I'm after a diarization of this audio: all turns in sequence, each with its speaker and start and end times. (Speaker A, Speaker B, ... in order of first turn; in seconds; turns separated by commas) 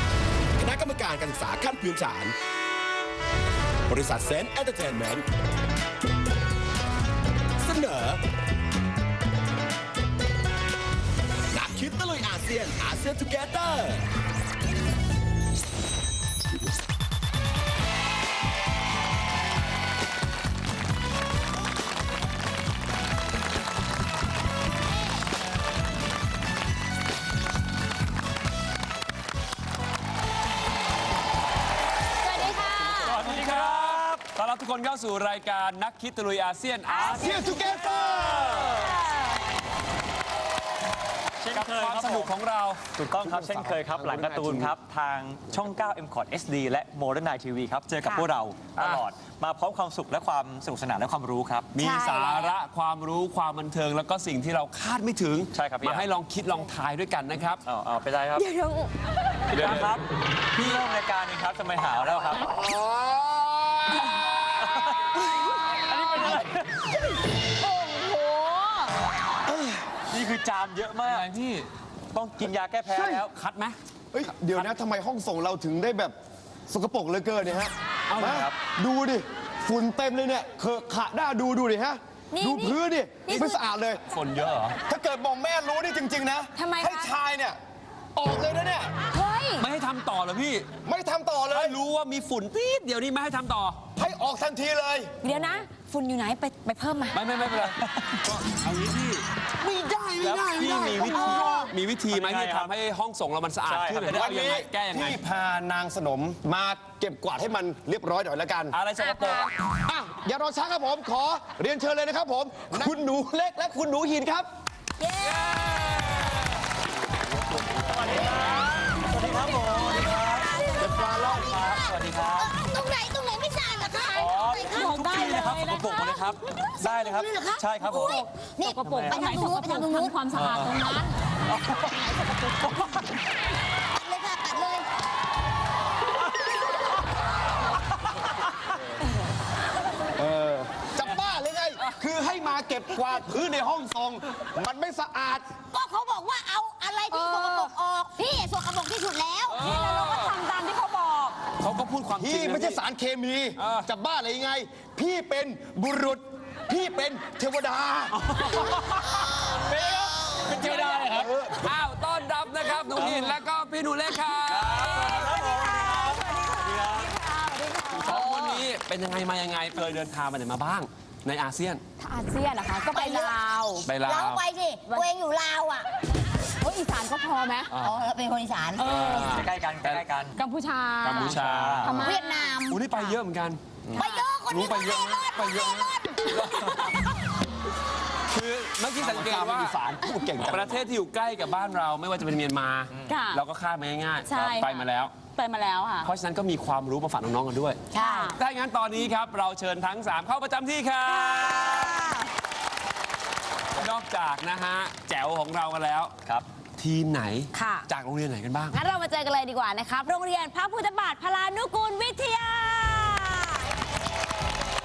Speaker A: 0.6-2.3, Speaker A: 3.9-5.2, Speaker A: 7.6-8.2, Speaker A: 11.5-14.1, Speaker B: 32.3-33.2, Speaker C: 32.6-37.5, Speaker D: 32.9-34.3, Speaker B: 36.9-39.3, Speaker D: 37.0-37.3, Speaker E: 37.1-38.9, Speaker D: 41.4-42.3, Speaker C: 41.5-42.8, Speaker D: 42.9-51.7, Speaker E: 43.2-44.4, Speaker C: 48.7-49.0, Speaker C: 51.7-57.6, Speaker B: 51.8-52.5, Speaker D: 55.5-56.1, Speaker D: 57.6-58.5, Speaker B: 58.4-58.9, Speaker D: 59.5-62.5, Speaker C: 59.5-59.9, Speaker E: 62.5-64.0, Speaker D: 64.7-66.6, Speaker B: 67.6-68.9, Speaker D: 70.1-71.2, Speaker C: 71.0-71.7, Speaker D: 72.1-73.3, Speaker E: 72.9-73.2, Speaker C: 73.3-73.8, Speaker E: 74.1-76.1, Speaker E: 76.7-84.0, Speaker C: 78.1-78.5, Speaker B: 82.3-83.6, Speaker C: 84.1-84.8, Speaker E: 84.9-87.6, Speaker B: 86.5-87.1, Speaker E: 88.2-88.9, Speaker B: 89.1-89.7, Speaker C: 89.6-90.7, Speaker E: 90.8-91.8, Speaker C: 91.5-93.8, Speaker E: 94.0-95.2, Speaker B: 95.2-97.5, Speaker C: 97.1-99.2, Speaker D: 97.8-98.1, Speaker E: 99.6-101.7, Speaker D: 100.2-100.5, Speaker C: 100.2-105.2, Speaker B: 101.0-101.7, Speaker D: 102.1-102.7, Speaker D: 103.7-104.2, Speaker E: 104.1-108.8, Speaker C: 108.7-109.5, Speaker B: 109.0-109.5, Speaker E: 109.8-114.5, Speaker F: 115.0-115.7, Speaker C: 115.5-116.3, Speaker D: 118.0-120.6, Speaker F: 119.9-125.2, Speaker E: 120.7-121.6, Speaker D: 121.4-122.5, Speaker D: 124.1-128.2, Speaker B: 124.7-126.3, Speaker F: 126.6-130.2, Speaker B: 128.0-131.2, Speaker C: 128.8-129.3, Speaker D: 130.3-130.8, Speaker D: 131.5-131.9, Speaker B: 132.3-132.7, Speaker D: 132.7-132.9, Speaker F: 133.9-134.9, Speaker E: 140.2-145.6, Speaker F: 145.7-149.7, Speaker B: 147.1-147.7, Speaker C: 149.5-150.4, Speaker B: 149.6-151.4, Speaker C: 151.6-152.8, Speaker E: 152.2-158.2, Speaker C: 153.6-153.9, Speaker C: 158.3-159.0, Speaker D: 159.6-161.3, Speaker E: 160.4-161.7, Speaker C: 161.6-165.3, Speaker D: 163.0-163.3, Speaker D: 164.5-167.1, Speaker B: 164.9-168.2, Speaker C: 167.9-171.8, Speaker D: 168.0-168.6, Speaker B: 172.0-173.9, Speaker F: 172.9-175.8, Speaker C: 173.8-174.4, Speaker B: 176.6-177.8, Speaker C: 177.7-178.0, Speaker F: 177.8-178.9, Speaker B: 178.8-179.3, Speaker C: 178.8-180.0, Speaker D: 178.9-180.4, Speaker B: 180.3-182.6, Speaker C: 181.0-181.8, Speaker D: 181.1-182.0, Speaker F: 181.8-183.2, Speaker C: 182.7-183.8, Speaker B: 183.9-184.2, Speaker F: 183.9-186.3, Speaker C: 184.5-187.0, Speaker C: 188.3-189.8, Speaker E: 188.9-190.8, Speaker C: 190.4-195.2, Speaker B: 193.0-193.4, Speaker B: 194.2-196.1, Speaker C: 196.0-202.2, Speaker F: 197.9-198.3, Speaker B: 197.9-198.4, Speaker B: 201.0-202.3, Speaker C: 203.8-206.1, Speaker C: 206.8-208.8, Speaker B: 207.5-207.8, Speaker B: 208.7-213.7